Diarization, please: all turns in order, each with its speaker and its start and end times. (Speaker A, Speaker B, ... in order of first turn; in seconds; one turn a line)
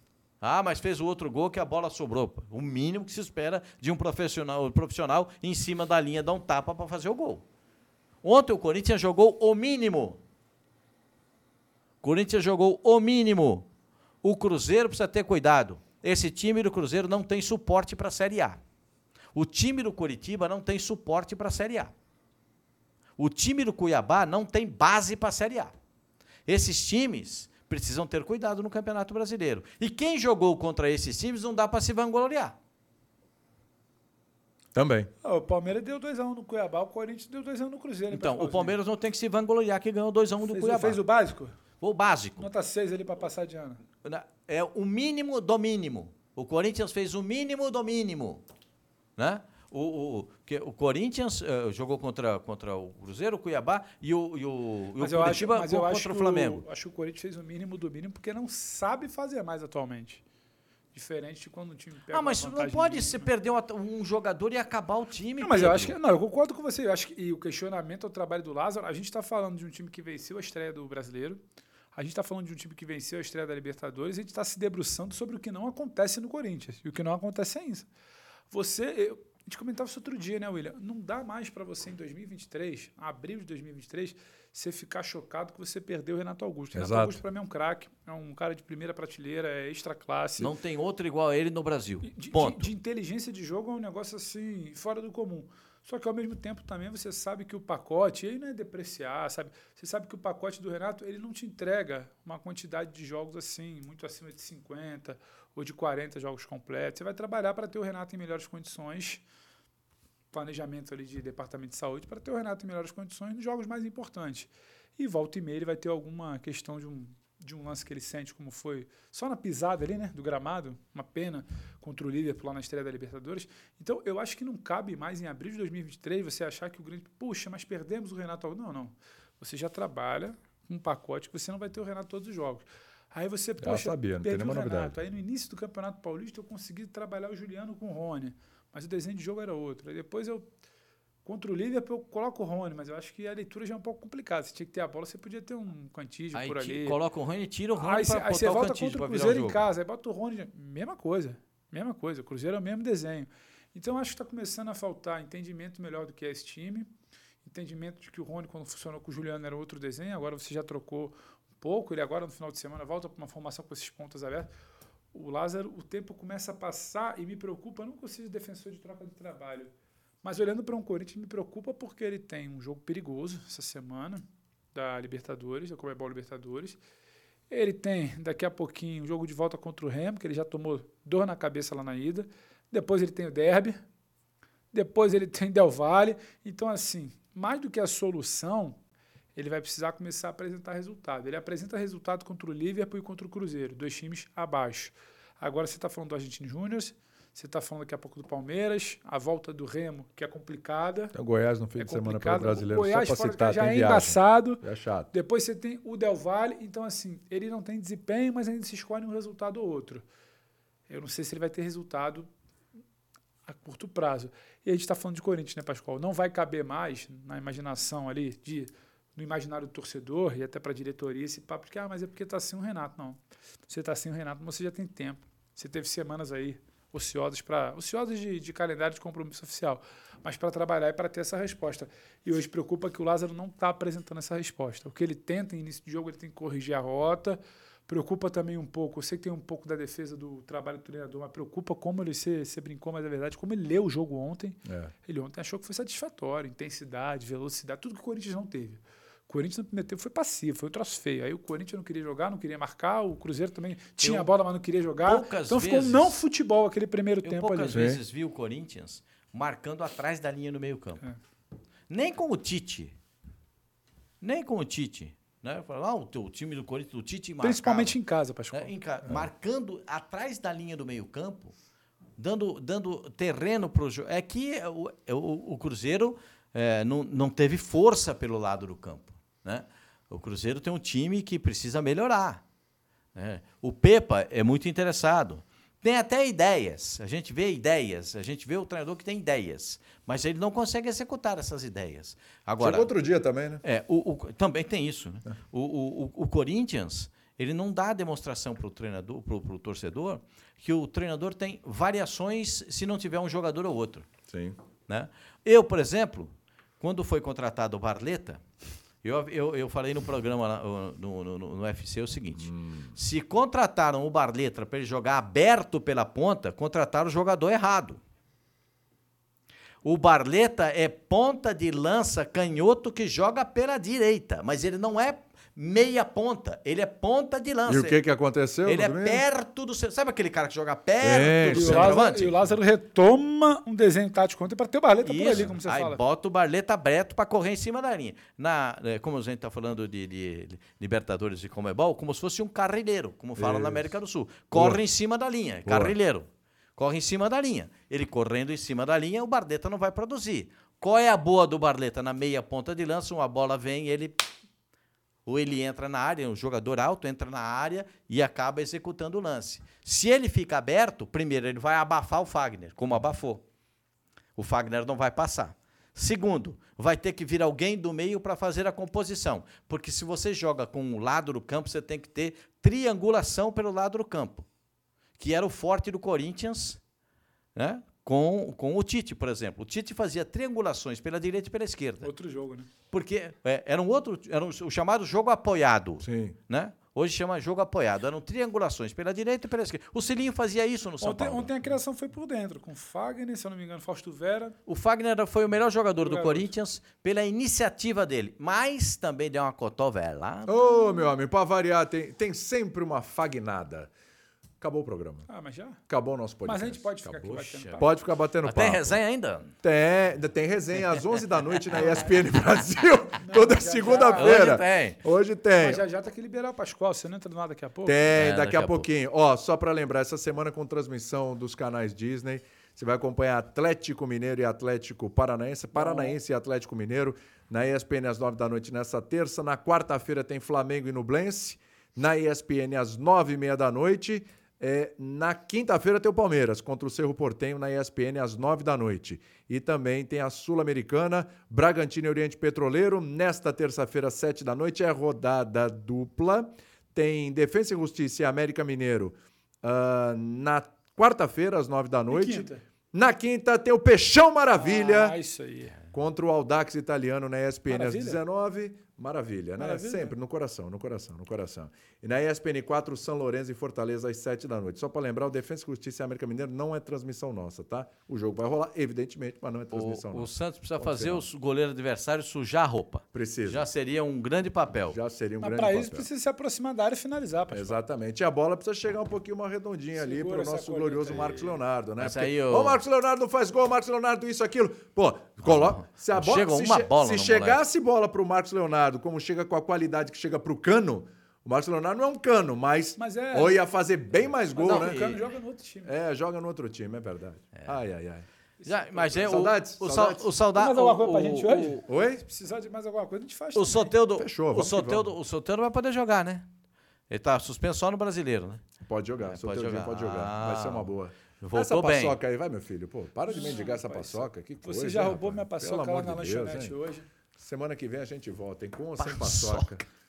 Speaker A: 0.4-7.5
Speaker A: 8.2-10.2
Speaker A: 12.0-13.7
Speaker A: 14.2-18.6
Speaker A: 19.3-21.9
Speaker A: 23.2-25.7
Speaker A: 26.5-32.5
Speaker B: 34.7-35.1
Speaker C: 35.2-38.8
Speaker A: 38.1-41.0
Speaker C: 40.5-41.5
Speaker A: 41.8-42.5
Speaker C: 42.4-43.8
Speaker A: 44.0-48.5
Speaker A: 49.2-56.6
Speaker C: 55.0-60.2
Speaker C: 60.9-63.3
Speaker A: 62.1-66.0
Speaker C: 65.4-71.4
Speaker C: 72.0-77.9
Speaker C: 78.5-90.5
Speaker B: 86.7-87.2
Speaker A: 90.4-92.7
Speaker C: 92.0-109.2
Speaker C: 110.3-140.5
Speaker B: 133.6-135.0
Speaker C: 141.2-147.0
Speaker A: 146.3-149.7
Speaker C: 147.8-156.9
Speaker C: 157.4-164.5
Speaker C: 165.1-169.7
Speaker C: 170.2-176.8
Speaker C: 177.5-183.8
Speaker C: 184.7-188.8
Speaker C: 189.4-201.2
Speaker B: 201.1-205.1
Speaker C: 201.8-210.1
Speaker C: 210.9-212.3
Speaker C: 213.5-257.9
Speaker B: 244.7-244.9
Speaker A: 254.0-254.3
Speaker A: 255.1-256.2
Speaker A: 257.2-261.0
Speaker B: 257.7-258.0
Speaker A: 261.9-262.9
Speaker A: 264.2-268.0
Speaker C: 267.4-268.7
Speaker A: 268.5-271.5
Speaker A: 272.2-282.4
Speaker A: 283.1-292.9
Speaker B: 292.6-293.6
Speaker A: 293.6-304.1
Speaker B: 304.3-304.6
Speaker A: 304.9-308.4
Speaker A: 309.0-318.0
Speaker B: 312.4-312.9
Speaker A: 319.8-328.0
Speaker B: 327.7-329.2
Speaker A: 328.6-332.5
Speaker B: 331.0-332.2
Speaker C: 331.4-336.0
Speaker A: 335.0-354.2
Speaker B: 343.4-343.9
Speaker B: 344.5-344.8
Speaker B: 345.7-345.9
Speaker A: 355.3-363.4
Speaker A: 364.4-374.5
Speaker A: 375.2-376.8
Speaker A: 377.6-382.1
Speaker C: 382.0-382.7
Speaker A: 382.9-391.5
Speaker B: 386.0-386.4
Speaker C: 391.0-394.6
Speaker A: 394.7-400.5
Speaker C: 396.0-396.5
Speaker B: 400.5-403.9
Speaker B: 404.6-405.3
Speaker C: 405.3-405.8
Speaker B: 405.9-409.0
Speaker C: 406.4-407.9
Speaker A: 407.3-409.6
Speaker B: 409.6-415.8
Speaker A: 411.6-412.0
Speaker C: 413.2-414.6
Speaker A: 414.1-415.0
Speaker C: 415.6-418.0
Speaker B: 417.9-455.2
Speaker A: 418.1-418.9
Speaker C: 425.7-426.1
Speaker C: 452.1-452.6
Speaker C: 454.6-455.8
Speaker B: 455.9-471.3
Speaker C: 457.7-458.2
Speaker C: 459.6-460.1
Speaker A: 469.7-475.0
Speaker B: 473.1-473.7
Speaker B: 474.9-476.1
Speaker C: 475.4-477.8
Speaker B: 477.5-495.2
Speaker C: 480.0-481.6
Speaker A: 482.0-482.8
Speaker A: 485.4-487.6
Speaker C: 493.0-493.6
Speaker C: 494.5-495.9
Speaker A: 494.6-495.2
Speaker B: 495.9-498.3
Speaker C: 498.6-499.4
Speaker A: 498.6-501.8
Speaker B: 499.1-500.3
Speaker C: 500.5-503.9
Speaker B: 501.9-502.2
Speaker A: 503.6-506.5
Speaker B: 504.1-505.1
Speaker A: 507.1-508.6
Speaker B: 508.8-516.8
Speaker A: 509.2-512.2
Speaker C: 513.3-517.1
Speaker B: 517.4-519.9
Speaker A: 519.0-519.7